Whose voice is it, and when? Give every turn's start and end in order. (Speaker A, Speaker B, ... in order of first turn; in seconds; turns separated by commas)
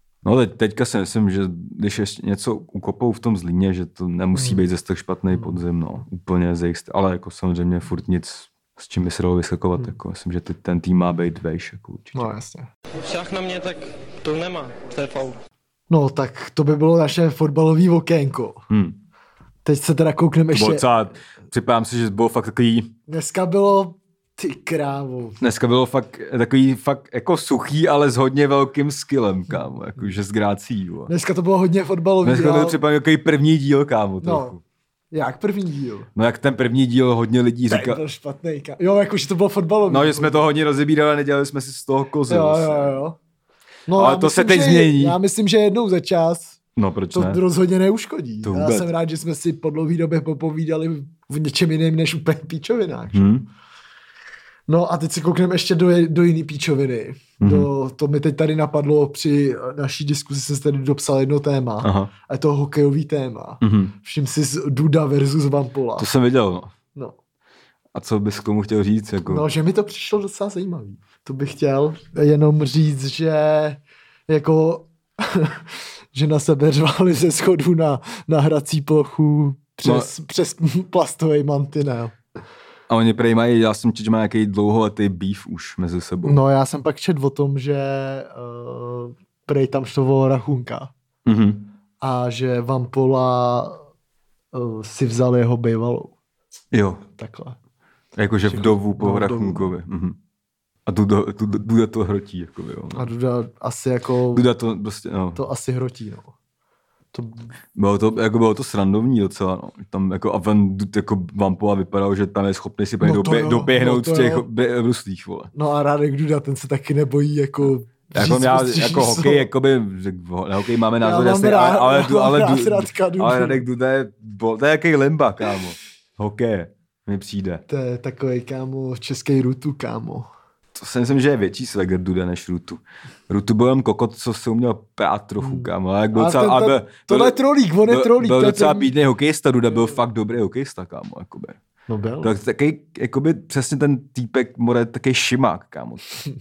Speaker A: 0.2-12.3, Speaker B: 4.3-4.7, Speaker B: 12.2-12.7, Speaker C: 13.0-15.4, Speaker B: 15.9-18.6, Speaker A: 18.7-19.0, Speaker B: 19.6-20.9, Speaker A: 20.5-22.9, Speaker B: 23.1-25.4, Speaker A: 25.4-31.1, Speaker B: 31.1-32.8, Speaker A: 32.2-34.6, Speaker B: 34.2-34.6, Speaker B: 35.1-36.1, Speaker A: 36.1-38.0, Speaker B: 37.7-40.5, Speaker A: 39.9-43.0, Speaker B: 42.3-43.2, Speaker B: 43.9-46.6, Speaker A: 44.0-45.2, Speaker A: 46.8-47.4, Speaker B: 47.1-53.3, Speaker A: 48.4-48.9, Speaker A: 53.1-53.5, Speaker B: 54.7-66.1, Speaker A: 57.4-57.7, Speaker A: 61.8-62.1, Speaker A: 63.6-63.9, Speaker A: 66.0-66.7, Speaker A: 67.9-69.5, Speaker B: 69.3-82.2, Speaker A: 79.8-80.1, Speaker A: 82.9-86.4, Speaker B: 86.2-90.9, Speaker A: 91.2-91.7, Speaker B: 92.0-93.8, Speaker B: 94.5-96.1, Speaker A: 96.7-97.0, Speaker B: 97.2-97.6, Speaker A: 98.2-100.2, Speaker B: 98.5-99.7, Speaker A: 100.9-103.1, Speaker B: 103.0-104.5, Speaker A: 104.3-105.4, Speaker B: 105.3-106.3, Speaker B: 107.1-107.5, Speaker A: 107.8-115.5, Speaker B: 113.0-114.5, Speaker B: 115.5-119.5, Speaker A: 118.1-127.6, Speaker B: 121.0-123.6, Speaker B: 127.7-130.3, Speaker A: 130.8-141.6, Speaker B: 135.4-138.9, Speaker B: 141.9-142.3, Speaker A: 142.2-146.2